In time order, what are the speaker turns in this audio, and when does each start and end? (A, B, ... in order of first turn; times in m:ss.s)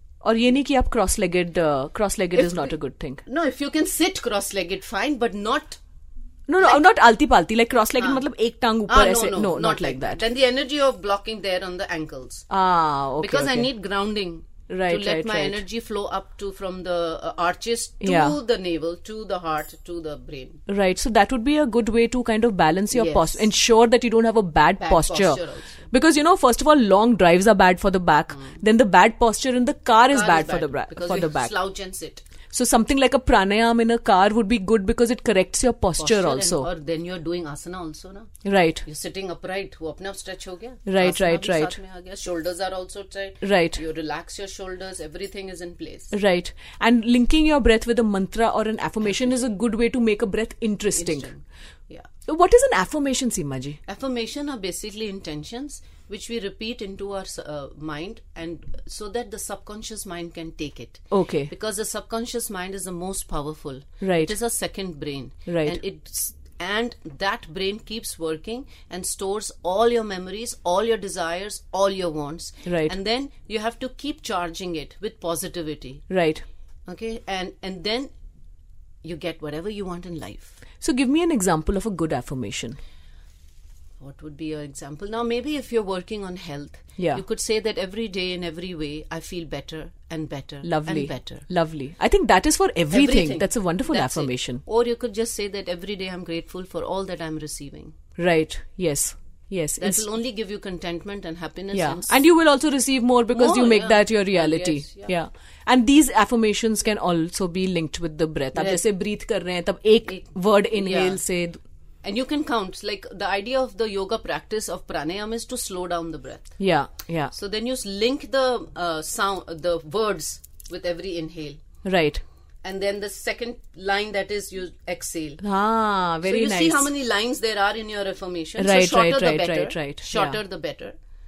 0:00.2-0:03.2 A
0:02.4-0:02.7 B
0:03.3-0:05.8 B
0:06.5-0:10.2 A
0:08.0-0:08.2 B
0:08.9-0:12.5 B
0:12.5-0:13.7 A
0:13.2-0:20.6 B
0:14.7-0:15.6 A
0:18.0-0:18.4 A
0:20.7-0:31.5 A
0:22.9-0:23.5 B
0:24.8-0:25.8 B
0:30.1-0:32.2 B
0:32.5-0:36.7 A
0:36.0-0:38.3 B
0:38.4-0:38.8 A
0:38.8-0:46.1 B
0:40.9-0:41.8 A
0:43.4-0:43.8 A
0:46.1-0:51.3 A
0:51.0-0:52.1 B
0:52.3-0:53.8 A
0:53.8-1:16.0 B
1:01.1-1:01.5 A
1:04.0-1:04.3 A
1:05.5-1:05.8 A
1:12.7-1:12.9 A
1:16.1-1:16.4 A
1:16.9-1:18.1 B
1:19.0-1:20.6 B
1:20.8-1:22.8 A
1:24.0-1:31.4 B
1:30.6-1:34.6 A
1:32.9-1:37.9 B
1:38.2-1:40.0 A
1:39.8-1:42.2 B
1:41.7-1:51.6 A
1:43.3-1:45.1 B
1:48.6-1:48.8 B
1:50.1-1:51.2 B
1:52.0-1:56.5 B
1:56.6-1:57.3 A
1:57.3-2:01.6 B
2:01.8-2:02.2 A
2:02.6-2:05.4 B
2:05.4-2:06.9 A
2:06.2-2:10.9 B
2:08.6-2:10.4 A